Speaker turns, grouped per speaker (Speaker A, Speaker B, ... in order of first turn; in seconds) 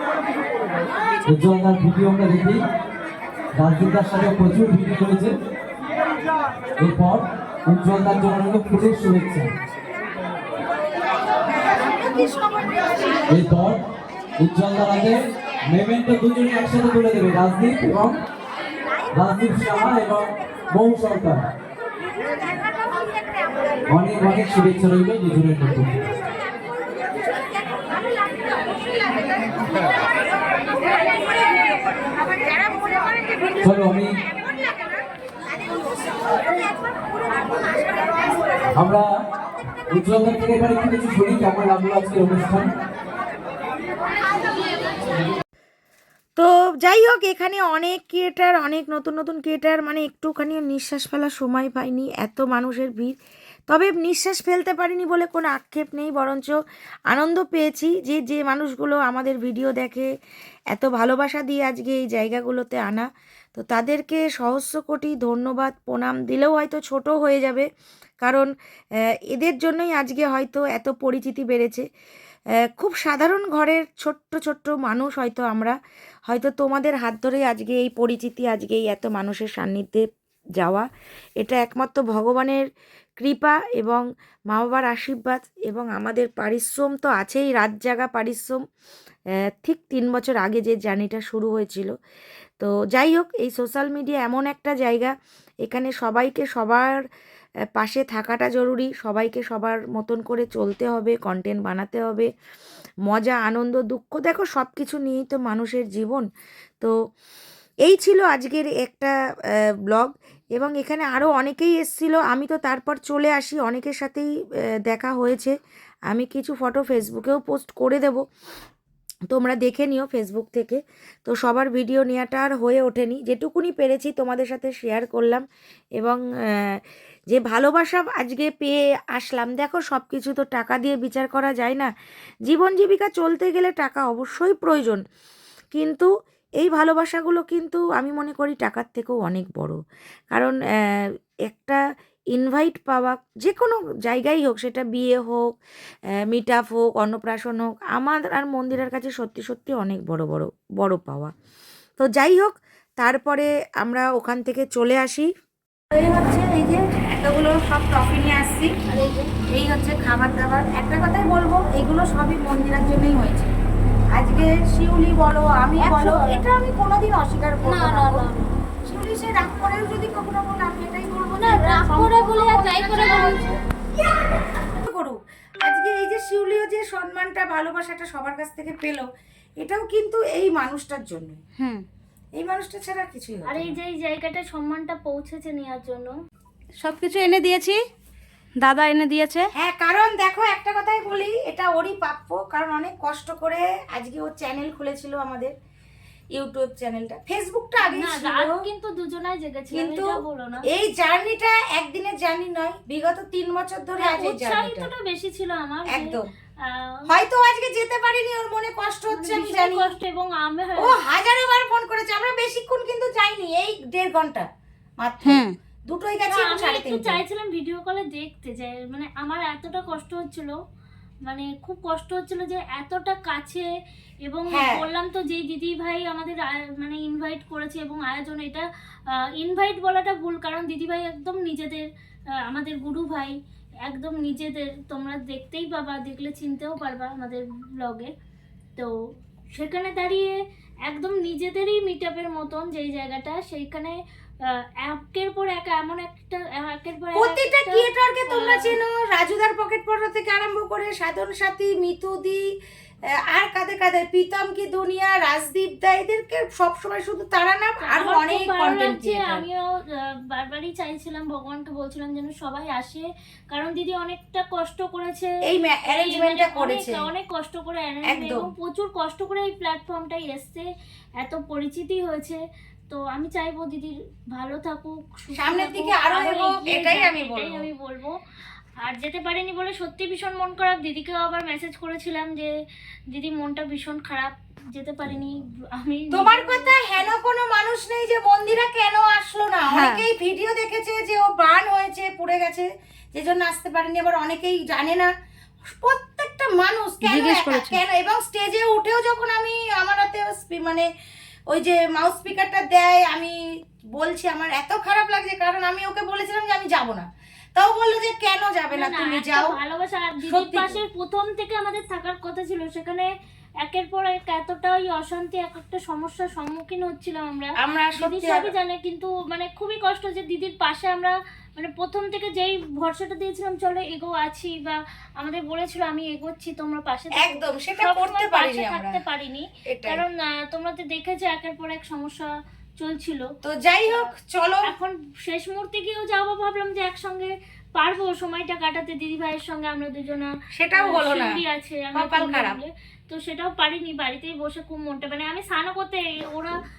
Speaker A: 1.3-2.6, 3.6-5.3, 6.8-9.5, 13.3-13.8, 14.4-15.2, 15.7-18.2, 19.1-21.4, 23.9-26.0, 33.6-34.1, 38.7-39.0, 39.9-42.7
Speaker B: 12.0-13.2, 28.2-28.7, 32.1-33.5, 46.4-53.1, 53.7-56.6, 57.1-60.1, 60.7-67.7, 68.2-68.5, 69.3-71.8, 72.7-75.7, 76.3-80.0, 80.6-80.8, 81.4-82.7, 83.2-88.6, 89.4-91.9, 92.6-95.1, 95.6-97.0, 97.8-102.3, 103.1-106.2, 107.8-114.3, 114.8-115.5, 116.1-118.2, 119.3-125.4, 126.0-126.8, 127.3-131.9, 132.5-135.0, 135.7-136.1, 136.6-139.8, 140.3-141.8, 142.3-145.5, 146.3-151.3, 152.0-155.3, 155.9-158.7, 159.5-163.5, 164.1-168.3, 168.8-173.5, 174.6-179.1, 179.6-181.4, 182.4-183.7, 189.6-195.5, 196.3-198.6, 199.7-204.9, 205.9-206.3, 207.1-209.9, 210.8-214.5, 215.0-217.2, 224.5-224.9, 247.1-252.4, 253.2-259.4, 265.5-267.1, 268.0-268.5, 275.3-277.7, 286.1-295.1, 295.7-300.9, 301.5-309.6, 310.2-310.8, 317.6-318.5, 327.2-329.0, 329.7-330.0, 333.4-334.7, 340.5-341.4, 341.9-342.6
Speaker C: 165.8-166.4, 167.6-168.3, 171.5-173.4, 181.6-181.8, 186.8-187.8, 188.6-189.5, 215.2-215.5, 289.7-290.1, 297.0-297.8
Speaker D: 183.5-186.1, 197.8-200.6, 204.0-206.9, 209.1-210.9, 216.3-220.5, 221.2-223.7, 224.2-228.6, 229.4-231.8, 232.5-233.3, 233.8-238.1, 239.5-240.3, 240.8-243.9, 244.8-248.8, 257.8-265.3, 265.9-270.6, 271.2-278.1, 278.8-282.5, 283.1-287.1, 308.7-313.1, 313.6-333.2, 334.6-346.5